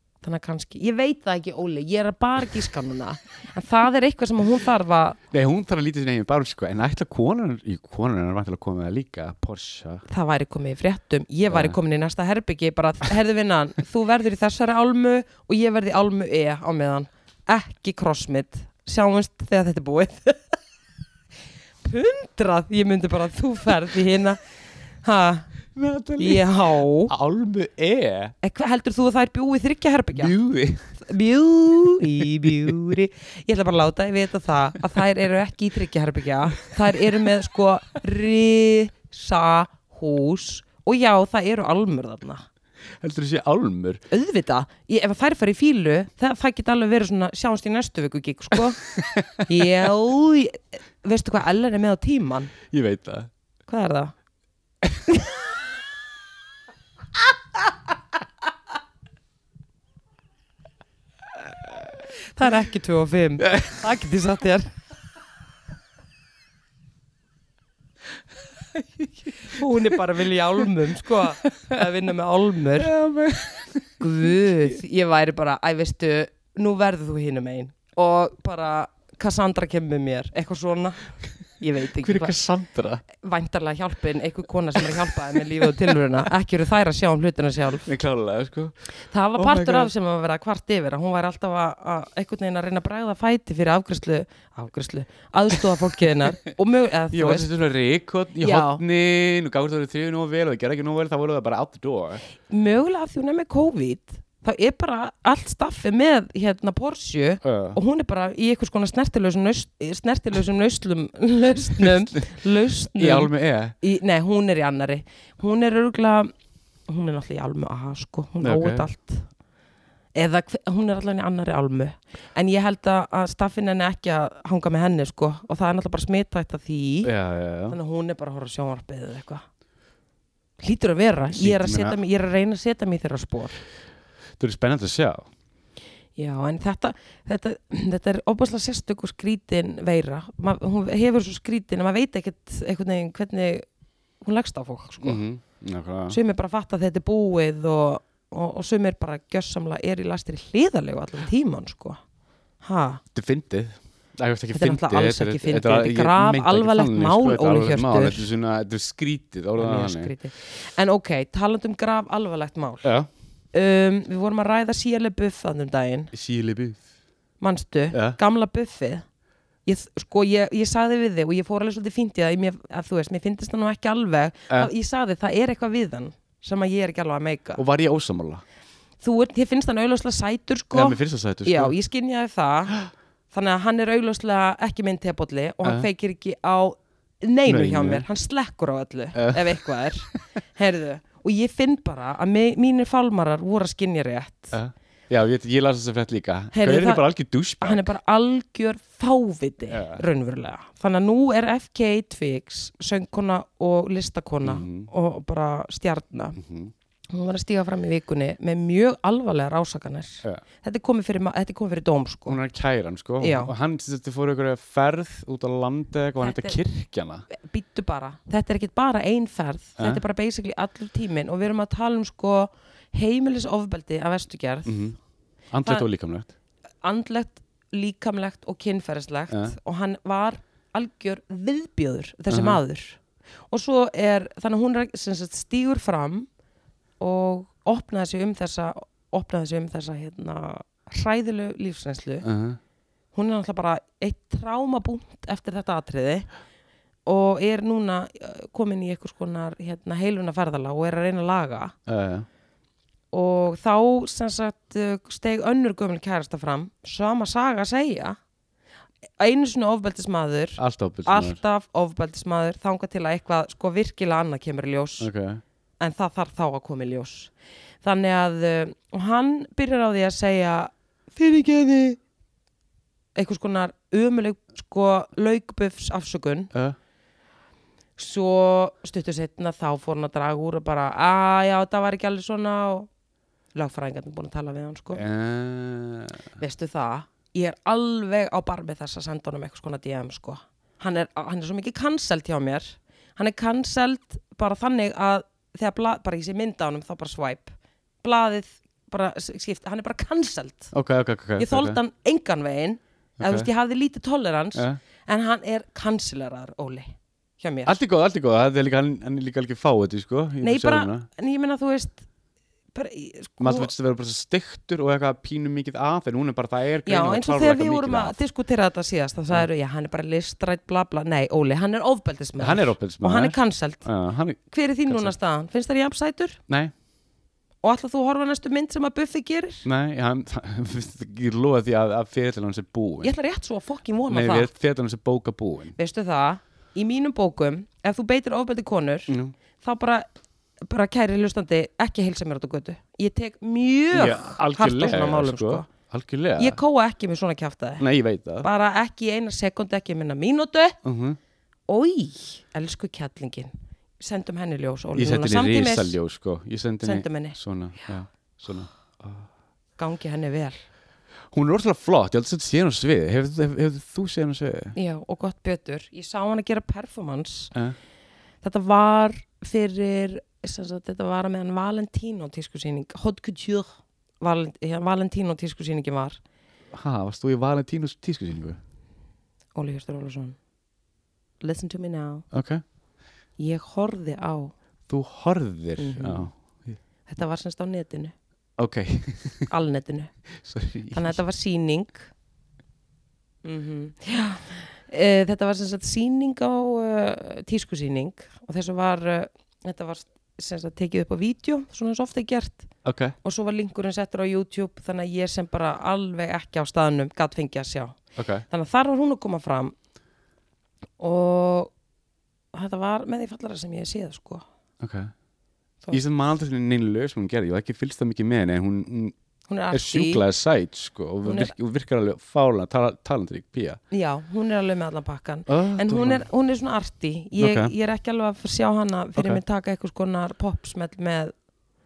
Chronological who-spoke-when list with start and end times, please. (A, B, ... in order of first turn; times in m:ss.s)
0:00.2-0:05.2 A
0:05.3-0:10.0 B
0:10.1-0:20.4 A
0:11.5-0:11.8 B
0:21.8-0:24.4 A
0:25.0-0:25.5 A
0:25.7-0:28.3 B
0:26.2-0:27.1 A
0:28.4-0:30.4 A
0:30.2-0:31.0 B
0:31.0-0:42.4 A
0:31.9-0:32.9 B
0:43.0-0:44.0 B
0:44.1-0:48.8 A
0:49.0-0:49.4 B
0:49.4-0:52.5 A
0:52.7-0:53.3 B
0:53.7-0:54.1 A
1:01.4-1:02.0 B
1:02.2-1:04.7 A
1:03.5-1:03.8 B
1:08.7-1:10.0 B
1:09.4-1:12.9 A
1:11.1-1:11.8 B
1:12.8-1:14.3 B
1:14.0-1:22.4 A
1:22.0-1:23.0 B
1:23.1-1:27.9 A
1:24.9-1:25.2 B
1:27.8-1:28.8 B
1:29.1-1:37.5 A
1:29.4-1:29.9 B
1:37.1-1:42.2 B
1:38.4-1:38.8 A
1:42.5-1:56.3 A
1:47.4-1:47.8 B
1:52.9-1:53.8 B
1:56.9-1:59.3 A
1:58.4-1:58.9 B
2:00.2-2:07.1 A
2:07.0-2:07.8 B
2:07.7-2:09.4 A
2:10.6-2:13.6 A
2:11.3-2:12.0 B
2:14.4-2:15.3 B
2:16.2-2:23.6 A
2:24.2-2:25.2 A
2:25.0-2:26.2 B
2:26.1-2:32.0 A
2:32.6-2:33.0 A
2:33.1-2:40.1 B
2:34.5-2:38.3 A
2:39.6-2:42.9 A
2:42.8-2:43.1 B
2:43.5-2:46.1 A
2:46.1-2:46.9 B
2:47.4-2:49.0 A
2:47.9-2:48.2 B
2:49.7-2:57.6 A
2:57.6-2:58.4 B
2:59.0-3:02.8 A
3:00.7-3:01.8 B
3:03.3-3:14.6 A
3:07.5-3:08.0 B
3:09.2-3:10.2 B
3:14.5-3:17.9 B
3:16.5-3:17.1 A
3:17.6-3:26.4 A
3:19.7-3:20.0 B
3:24.4-3:24.9 B
3:26.4-3:26.7 B
3:27.1-3:32.4 A
3:32.3-3:37.3 B
3:33.2-3:33.5 A
3:36.2-3:36.6 A
3:37.3-3:45.0 A
3:44.7-3:45.0 B
3:45.5-3:46.3 B
3:46.8-3:56.3 A
3:49.3-3:49.6 B
3:52.3-3:52.6 B
3:57.0-4:02.3 A
4:02.2-4:02.6 B
4:03.1-4:06.3 A
4:07.1-4:11.8 A
4:11.9-4:12.3 B
4:13.1-4:18.2 A
4:19.2-4:25.1 A
4:20.6-4:21.4 B
4:25.0-4:25.4 B
4:25.8-4:27.3 A
4:27.8-4:32.0 A
4:33.2-4:36.5 A
4:38.0-4:42.9 A
4:43.6-4:45.0 A
4:45.0-4:46.2 B
4:46.4-5:00.7 A
5:00.7-5:01.8 B
5:01.4-5:07.8 A
5:03.2-5:03.5 B
5:04.6-5:04.8 B
5:07.7-5:11.1 B
5:10.4-5:12.1 A
5:12.7-5:13.7 A
5:13.4-5:18.2 B
5:16.9-5:23.9 A
5:22.4-5:25.1 B
5:24.5-5:26.4 A
5:27.6-5:29.7 A
5:29.6-5:33.1 B
5:33.0-5:34.5 A
5:34.1-5:35.8 B
5:35.8-5:40.0 A
5:39.1-5:39.4 B
5:40.6-5:45.7 A
5:43.9-5:46.6 B
5:46.4-5:47.9 A
5:47.8-5:48.5 B
5:48.4-5:50.8 A
5:50.8-5:51.2 B
5:51.7-5:56.0 A
5:55.0-5:59.3 B
5:56.8-5:57.4 A
5:59.8-6:00.6 A
6:01.3-6:04.8 B
6:04.8-6:07.5 A
6:08.4-6:16.2 A
6:16.7-6:18.6 B
6:19.6-6:20.4 A
6:21.4-6:22.3 A
6:22.3-6:22.6 B
6:23.4-6:24.5 A
6:24.9-6:26.8 B
6:25.8-6:26.3 A
6:27.1-6:28.1 A
6:28.6-6:29.5 B
6:29.5-6:30.1 A
6:30.4-6:31.2 B
6:30.9-6:32.1 A
6:33.4-6:42.7 A
6:42.8-6:43.2 B
6:43.2-6:49.7 A
6:48.2-6:48.4 B
6:51.0-6:51.7 A
6:52.5-6:54.4 A
6:54.8-6:55.1 B
6:55.9-6:59.2 B
6:59.5-7:00.2 A
6:59.7-7:03.8 B
7:01.2-7:01.5 A
7:03.9-7:11.3 A
7:05.5-7:06.2 B
7:07.4-7:07.7 B
7:09.2-7:09.4 B